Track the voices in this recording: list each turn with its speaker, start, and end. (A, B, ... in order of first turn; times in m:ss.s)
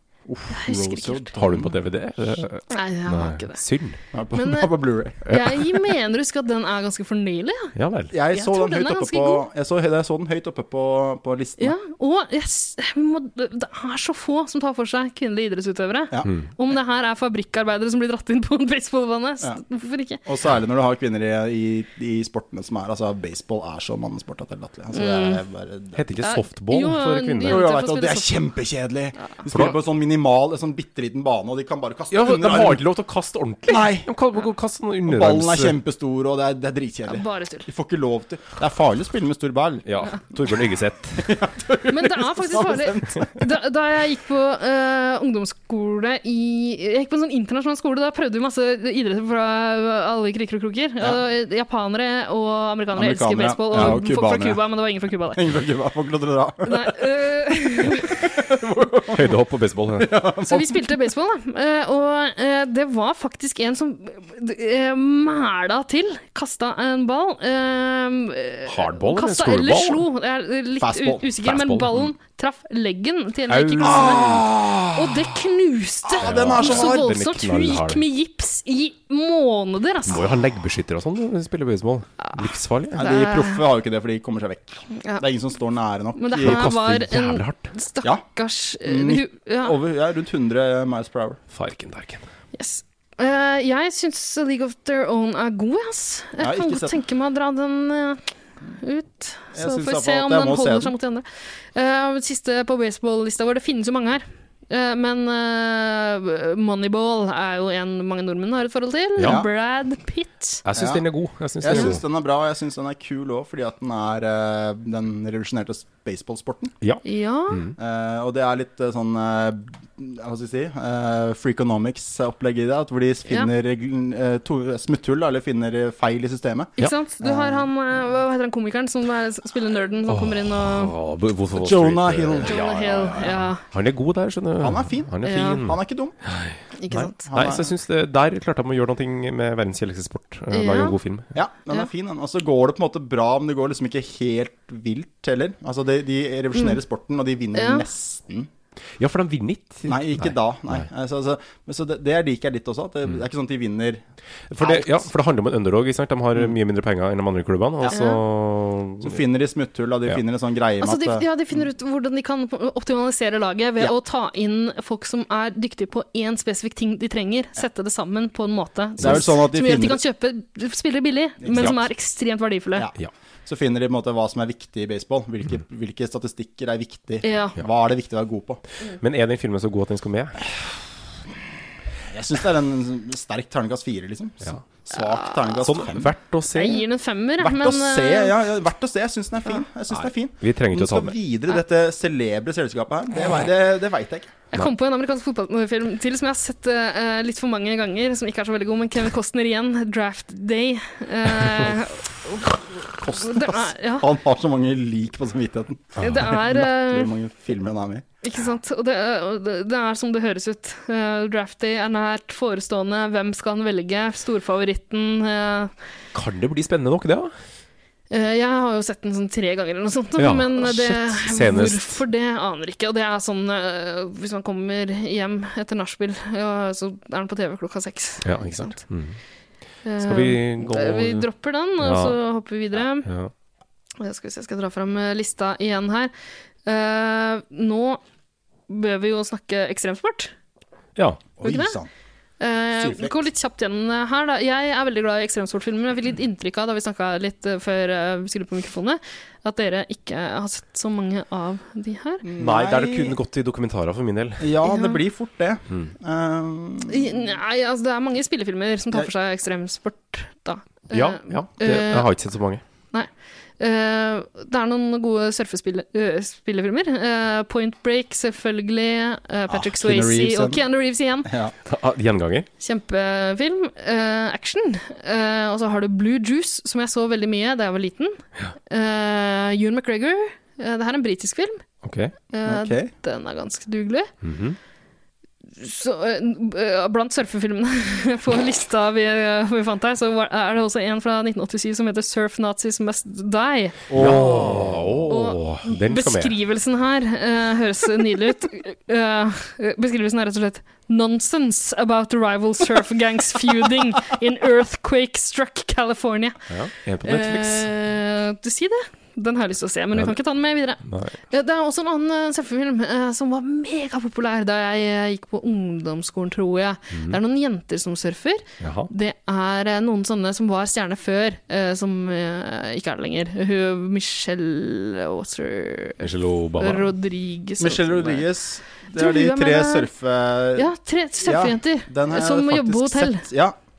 0:00.3-0:01.7 A
0:00.5-0:01.3 B
0:01.3-0:04.0 C
0:02.7-0:03.6 B
0:04.1-0:05.2 A
0:04.3-0:07.7 B
0:05.3-0:05.8 C
0:07.8-0:08.1 C
0:08.1-0:11.8 A
0:08.3-0:09.4 B
0:11.6-0:20.2 B
0:20.2-0:26.0 A
0:24.9-0:25.4 B
0:26.0-0:27.6 C
0:26.2-0:28.5 B
0:27.4-0:32.9 A
0:32.1-0:35.8 C
0:33.7-0:34.1 A
0:35.1-0:40.6 A
0:37.1-0:37.7 B
0:39.9-0:41.4 C
0:41.2-0:43.5 A
0:41.9-0:55.4 B
0:52.9-0:54.7 A
0:55.2-0:57.0 A
0:56.6-0:58.2 B
0:57.8-1:00.9 A
0:59.1-1:00.1 C
1:00.5-1:20.3 B
1:08.7-1:10.0 C
1:10.8-1:11.3 A
1:11.4-1:12.1 C
1:13.5-1:14.4 C
1:13.8-1:15.2 A
1:16.1-1:17.1 A
1:16.2-1:18.0 C
1:20.1-1:23.0 C
1:22.2-1:22.5 B
1:23.0-1:26.7 A
1:23.0-1:23.6 B
1:25.0-1:25.2 B
1:26.2-1:29.8 B
1:26.4-1:27.7 C
1:28.8-1:31.4 A
1:31.5-1:32.2 C
1:32.6-1:50.6 B
1:36.4-1:37.0 A
1:39.5-1:40.9 A
1:49.2-1:49.5 A
1:50.6-1:52.0 C
1:50.8-1:51.0 A
1:51.6-1:56.8 A
1:51.7-1:52.0 B
1:56.8-1:57.7 C
1:57.0-1:57.7 B
1:57.8-2:07.7 A
2:06.8-2:10.9 B
2:10.1-2:21.3 C
2:11.6-2:13.3 A
2:12.5-2:13.6 B
2:14.6-2:16.2 A
2:15.2-2:15.6 B
2:16.8-2:17.3 B
2:17.3-2:17.7 A
2:20.5-2:21.0 B
2:21.3-2:28.5 A
2:27.5-2:27.9 B
2:29.0-2:30.8 C
2:29.9-2:34.0 A
2:34.5-2:39.2 C
2:34.6-2:35.1 A
2:37.9-2:38.2 B
2:39.0-2:41.2 A
2:40.8-2:52.9 B
2:49.0-2:50.0 A
2:51.4-2:51.7 A
2:53.5-2:58.6 A
2:57.2-2:57.6 B
2:59.0-3:00.4 C
3:02.1-3:06.1 A
3:05.2-3:05.6 B
3:05.6-3:06.8 C
3:06.5-3:08.4 B
3:07.4-3:14.3 A
3:09.9-3:11.2 C
3:14.5-3:24.0 B
3:22.9-3:28.0 A
3:26.0-3:27.1 B
3:28.2-3:35.7 B
3:36.1-3:37.3 C
3:38.1-3:48.8 B
3:40.2-3:42.0 C
3:48.2-3:49.2 C
3:49.8-3:53.1 B
3:50.0-3:51.3 C
3:51.8-3:52.2 C
3:53.0-3:53.3 C
3:54.0-3:56.1 B
3:56.6-3:58.0 B
3:58.7-4:00.3 B
4:01.0-4:01.3 C
4:01.4-4:01.9 A
4:01.4-4:01.8 B
4:02.4-4:12.2 B
4:02.8-4:03.2 A
4:12.2-4:13.2 A
4:12.4-4:14.5 C
4:14.4-4:17.3 A
4:14.6-4:15.0 B
4:16.9-4:22.1 B
4:20.9-4:22.6 C
4:22.9-4:31.3 B
4:29.5-4:30.6 A
4:31.2-4:31.5 A
4:31.7-4:32.5 C
4:32.6-4:41.6 B
4:41.8-4:42.1 C
4:42.3-4:44.1 B
4:42.4-4:42.9 A
4:44.2-4:44.6 C
4:45.6-4:53.8 B
4:53.9-4:55.0 A
4:53.9-4:56.4 C
4:55.1-5:06.5 B
5:06.5-5:07.7 C
5:07.0-5:28.3 B
5:10.8-5:11.2 C
5:16.9-5:17.2 C
5:18.6-5:18.9 C
5:26.0-5:26.9 C
5:27.6-5:33.6 A
5:29.0-5:29.9 B
5:30.6-5:33.3 B